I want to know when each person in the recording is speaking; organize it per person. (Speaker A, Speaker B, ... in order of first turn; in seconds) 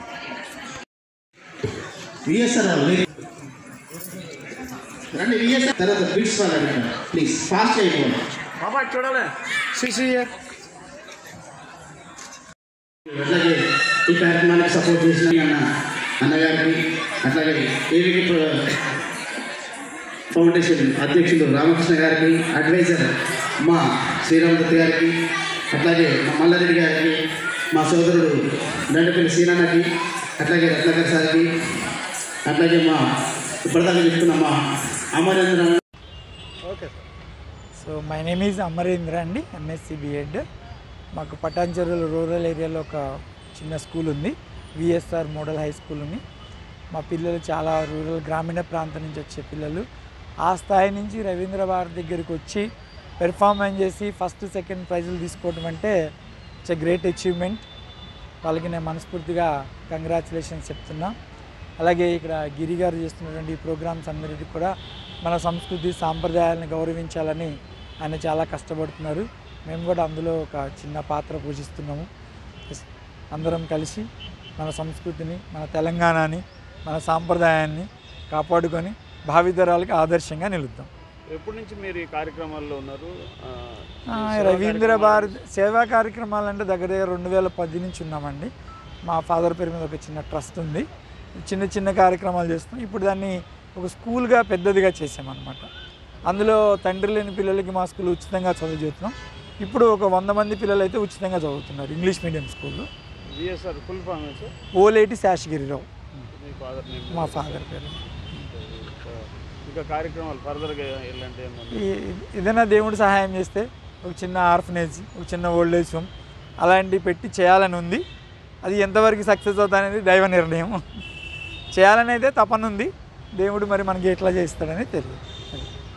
Speaker A: 2.2-3.0, 5.1-8.2, 13.1-13.6, 14.1-15.6, 16.2-18.6, 20.3-23.1, 23.6-25.1, 25.7-27.1, 27.7-28.3, 28.9-29.8, 30.4-31.5, 32.5-33.0, 33.6-34.5, 35.1-35.8
Speaker B: 37.8-40.4, 41.1-46.2, 46.9-49.9, 50.5-52.6, 53.2-55.9, 56.7-57.6, 58.4-61.1, 61.8-64.7, 65.2-67.5, 68.0-72.1, 73.3-74.0, 74.6-80.9, 84.1-88.5, 89.0-90.8, 91.4-95.7, 96.2-102.9, 104.8-105.9, 107.1-107.9, 111.7-116.1, 116.6-118.0, 118.6-120.8, 121.7-125.7
Speaker C: 81.3-85.4, 103.3-104.5, 106.3-111.9